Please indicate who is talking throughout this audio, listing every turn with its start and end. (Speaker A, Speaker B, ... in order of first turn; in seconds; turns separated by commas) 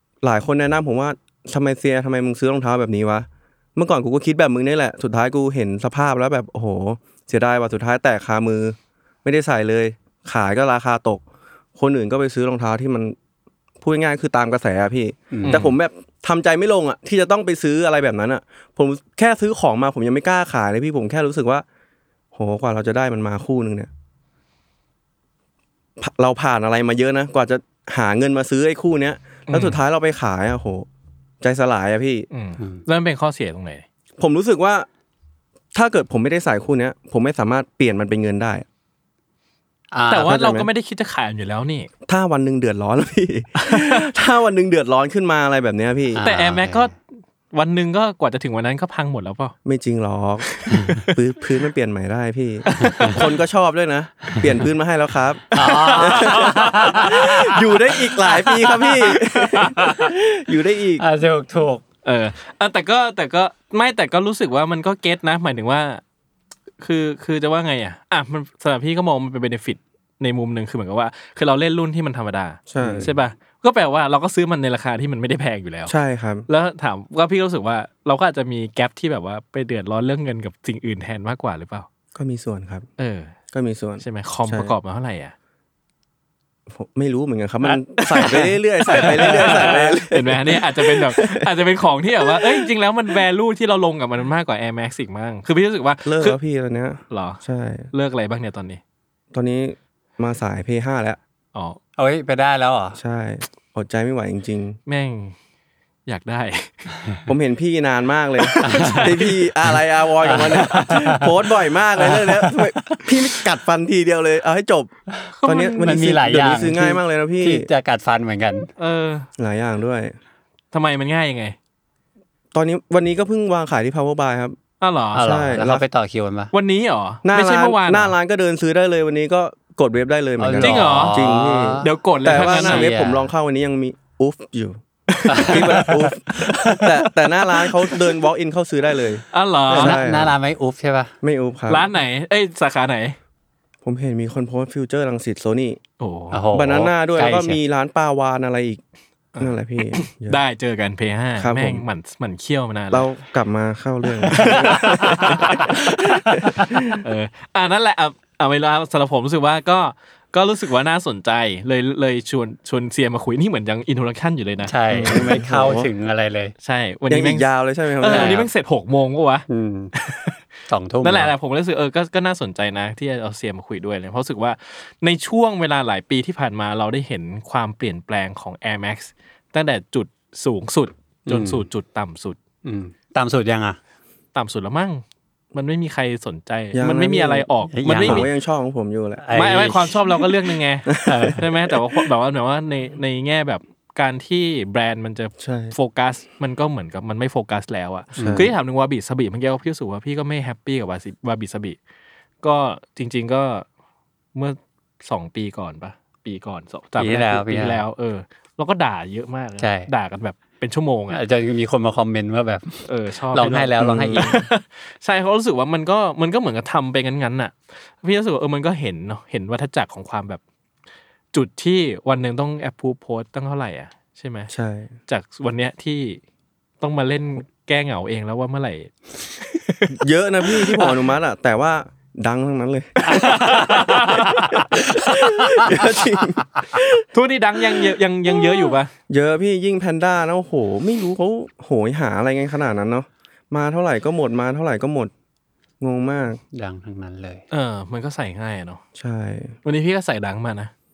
Speaker A: 0.2-11.2, Speaker A: 11.8-13.2, Speaker A: 13.8-21.6, Speaker B: 15.3-15.6, Speaker C: 15.4-15.7, Speaker A: 22.3-23.9, Speaker A: 26.0-30.9, Speaker C: 29.5-29.8, Speaker A: 31.4-32.3, Speaker C: 32.3-33.8, Speaker A: 34.2-34.9, Speaker A: 35.7-38.6, Speaker B: 39.9-40.4, Speaker C: 40.1-41.9, Speaker A: 40.2-40.7, Speaker A: 42.1-46.2, Speaker C: 43.6-44.1, Speaker B: 46.1-46.9, Speaker C: 46.2-47.0, Speaker C: 47.5-49.5, Speaker A: 49.6-61.0, Speaker C: 50.5-51.1, Speaker C: 52.6-53.3, Speaker B: 55.5-57.6, Speaker C: 55.5-60.1, Speaker B: 61.0-61.8, Speaker C: 62.0-66.0, Speaker C: 66.8-75.9, Speaker A: 72.7-73.1, Speaker B: 72.8-73.2, Speaker A: 75.9-76.5, Speaker C: 76.5-81.9, Speaker A: 82.1-82.8, Speaker C: 83.0-83.3, Speaker A: 83.5-84.7, Speaker C: 84.0-85.3, Speaker A: 86.7-91.5, Speaker C: 88.0-96.4, Speaker B: 88.2-89.9, Speaker A: 92.3-92.7, Speaker A: 96.0-97.9, Speaker C: 97.1-98.8, Speaker A: 99.3-101.2, Speaker C: 101.5-101.8, Speaker B: 102.0-103.0, Speaker A: 103.0-104.8, Speaker C: 104.9-105.3, Speaker C: 106.0-106.9, Speaker A: 107.3-117.7, Speaker C: 108.4-109.4, Speaker B: 108.6-109.0, Speaker B: 110.2-111.3, Speaker B: 112.0-113.1, Speaker C: 115.4-115.9, Speaker B: 115.8-118.7, Speaker C: 118.8-119.3, Speaker A: 119.4-120.2, Speaker C: 120.7-121.5, Speaker A: 122.5-124.6, Speaker C: 124.8-125.2, Speaker B: 125.1-126.5, Speaker A: 125.2-125.8, Speaker C: 126.5-128.1, Speaker A: 127.2-140.3, Speaker B: 130.4-133.3, Speaker C: 130.6-131.2, Speaker C: 131.8-132.9, Speaker B: 135.3-136.9, Speaker C: 135.4-135.6, Speaker C: 139.3-140.0, Speaker B: 139.7-141.1, Speaker A: 141.2-141.9, Speaker C: 141.7-143.2, Speaker A: 143.8-145.8, Speaker C: 146.0-146.4, Speaker B: 146.3-147.6, Speaker A: 146.5-148.8, Speaker C: 149.3-153.1, Speaker A: 149.4-150.4, Speaker A: 151.4-151.9, Speaker A: 152.9-157.0, Speaker C: 154.2-156.1, Speaker B: 154.4-156.7, Speaker C: 156.9-164.7, Speaker B: 164.7-166.5, Speaker A: 164.9-165.9, Speaker C: 166.6-170.3, Speaker A: 167.1-168.5, Speaker B: 168.1-168.4, Speaker B: 169.5-169.9, Speaker B: 170.7-171.3, Speaker C: 171.0-182.4, Speaker B: 181.3-181.6, Speaker B: 182.6-183.8, Speaker C: 184.3-185.0, Speaker C: 185.5-188.3, Speaker A: 186.7-189.2, Speaker B: 187.7-188.3, Speaker B: 189.2-189.9, Speaker C: 189.3-201.8, Speaker A: 190.9-192.1, Speaker B: 191.0-191.4, Speaker A: 195.4-195.7, Speaker B: 198.2-198.5, Speaker A: 198.2-198.5, Speaker C: 202.4-203.6, Speaker C: 204.3-211.2, Speaker B: 207.0-207.8, Speaker B: 209.6-209.9, Speaker B: 211.1-214.4, Speaker C: 212.8-220.4, Speaker A: 213.8-214.4, Speaker C: 221.3-224.5, Speaker A: 224.5-224.9, Speaker C: 225.1-226.2, Speaker C: 226.8-231.0, Speaker A: 229.9-237.1, Speaker C: 233.0-234.8, Speaker B: 235.5-235.8, Speaker C: 237.1-238.9, Speaker A: 239.1-245.1, Speaker A: 245.8-246.4, Speaker B: 246.5-247.4, Speaker C: 247.5-248.8, Speaker A: 248.9-249.6, Speaker C: 249.6-250.7